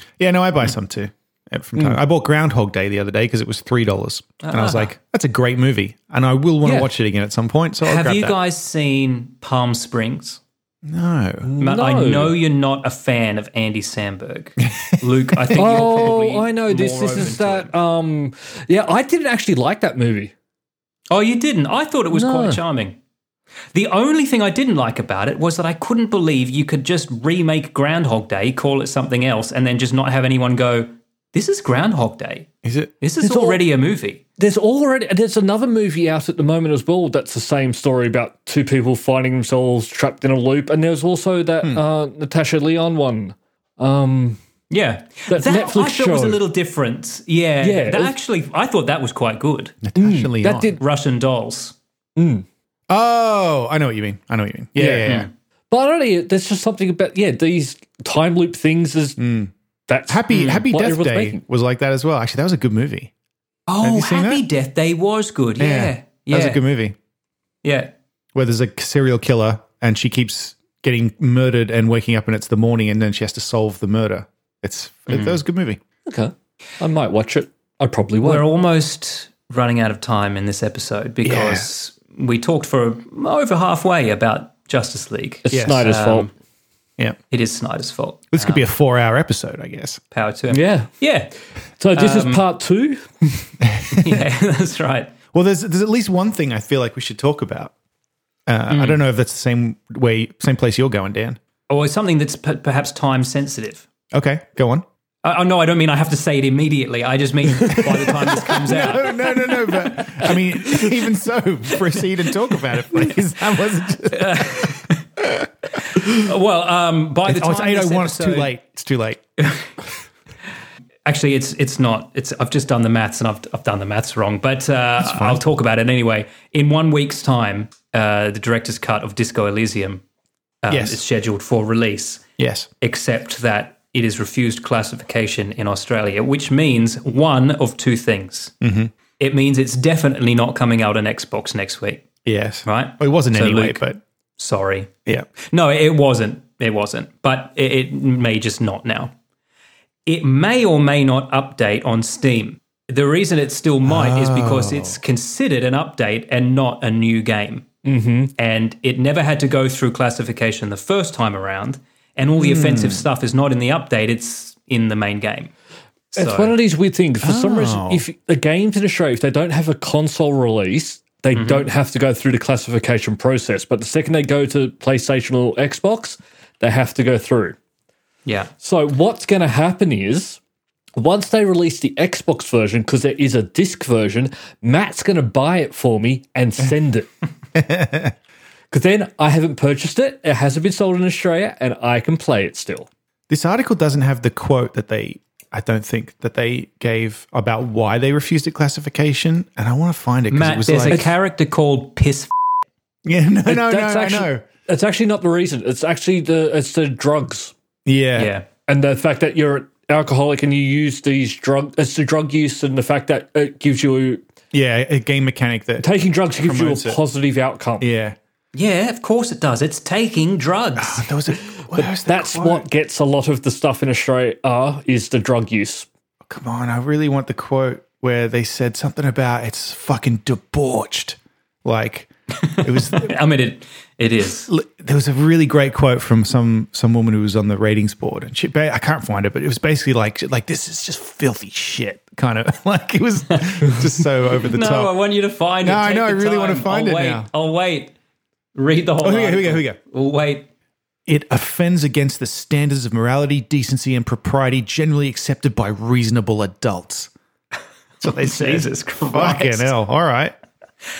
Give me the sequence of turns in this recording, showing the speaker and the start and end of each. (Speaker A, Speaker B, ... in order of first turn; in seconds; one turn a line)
Speaker A: 0.2-8.3
Speaker B: 4.4-4.9
Speaker B: 7.8-10.4
Speaker A: 10.8-11.5
Speaker C: 11.4-12.4
Speaker B: 11.6-17.7
Speaker C: 15.5-20.3
Speaker B: 21.1-23.0
Speaker C: 22.1-22.6
Speaker B: 23.7-32.5
Speaker A: 32.6-32.9
Speaker B: 33.0-34.2
Speaker C: 33.2-33.6
Speaker C: 34.4-44.4
Speaker B: 44.7-49.9
Speaker C: 45.3-46.4
Speaker C: 47.6-48.1
Speaker A: 49.8-50.7
Speaker C: 50.0-50.8
Speaker B: 50.6-51.8
Speaker C: 52.2-52.5
Speaker A: 52.9-55.3
Speaker C: 54.8-55.1
Speaker B: 55.0-55.3
Speaker C: 55.7-59.2
Speaker A: 59.2-59.5
Speaker C: 59.9-61.4
Speaker A: 60.1-63.1
Speaker B: 60.3-60.6
Speaker B: 63.7-66.6
Speaker A: 63.8-64.4
Speaker A: 65.6-67.0
Speaker B: 67.6-67.9
Speaker A: 68.3-75.8
Speaker B: 75.1-75.4
Speaker C: 76.1-78.5
Speaker B: 78.2-86.3
Speaker A: 81.2-81.7
Speaker C: 85.5-86.3
Speaker A: 85.5-85.9
Speaker B: 87.3-88.6
Speaker A: 88.3-90.0
Speaker B: 90.1-91.3
Speaker C: 90.5-90.9
Speaker C: 91.8-93.5
Speaker B: 91.9-92.4
Speaker A: 93.7-94.2
Speaker B: 93.9-95.1
Speaker A: 95.3-97.7
Speaker A: 98.5-101.4
Speaker B: 98.7-99.0
Speaker B: 101.7-103.8
Speaker A: 104.1-104.8
Speaker B: 105.2-109.5
Speaker A: 107.7-115.5
Speaker B: 114.1-115.0
Speaker B: 115.9-118.5
Speaker A: 117.3-119.2
Speaker B: 119.4-119.7
Speaker B: 121.1-130.0
Speaker A: 125.0-125.4
Speaker B: 130.6-132.2
Speaker A: 130.7-131.0
Speaker A: 132.4-132.7
Speaker B: 132.8-138.5
Speaker A: 138.6-138.9
Speaker B: 139.2-142.1
Speaker A: 142.2-144.0
Speaker B: 142.7-143.8
Speaker B: 144.4-149.1
Speaker B: 150.1-157.7
Speaker A: 153.9-155.0
Speaker C: 157.8-158.3
Speaker B: 158.4-165.5
Speaker A: 162.4-163.1
Speaker B: 166.1-166.6
Speaker C: 166.2-177.6
Speaker A: 167.2-168.1
Speaker B: 171.3-171.7
Speaker C: 178.6-180.4
Speaker C: 181.0-187.1
Speaker A: 187.6-188.1
Speaker C: 188.7-192.9
Speaker A: 193.3-201.1
Speaker B: 200.3-202.3
Speaker A: 203.1-204.4
Speaker C: 203.5-207.5
Speaker A: 207.9-208.3
Speaker B: 208.2-208.5
Speaker C: 208.7-214.2
Speaker A: 214.5-217.0
Speaker C: 215.8-217.9
Speaker A: 217.8-218.2
Speaker B: 218.5-221.1
Speaker A: 220.8-222.7
Speaker C: 221.4-225.9
Speaker A: 226.2-233.2
Speaker B: 232.4-234.5
Speaker A: 234.5-244.9
Speaker B: 243.4-247.9
Speaker A: 245.6-247.3
Speaker B: 248.6-250.5
Speaker A: 249.0-249.8
Speaker A: 251.1-257.1
Speaker A: 258.0-260.3
Speaker B: 258.2-259.7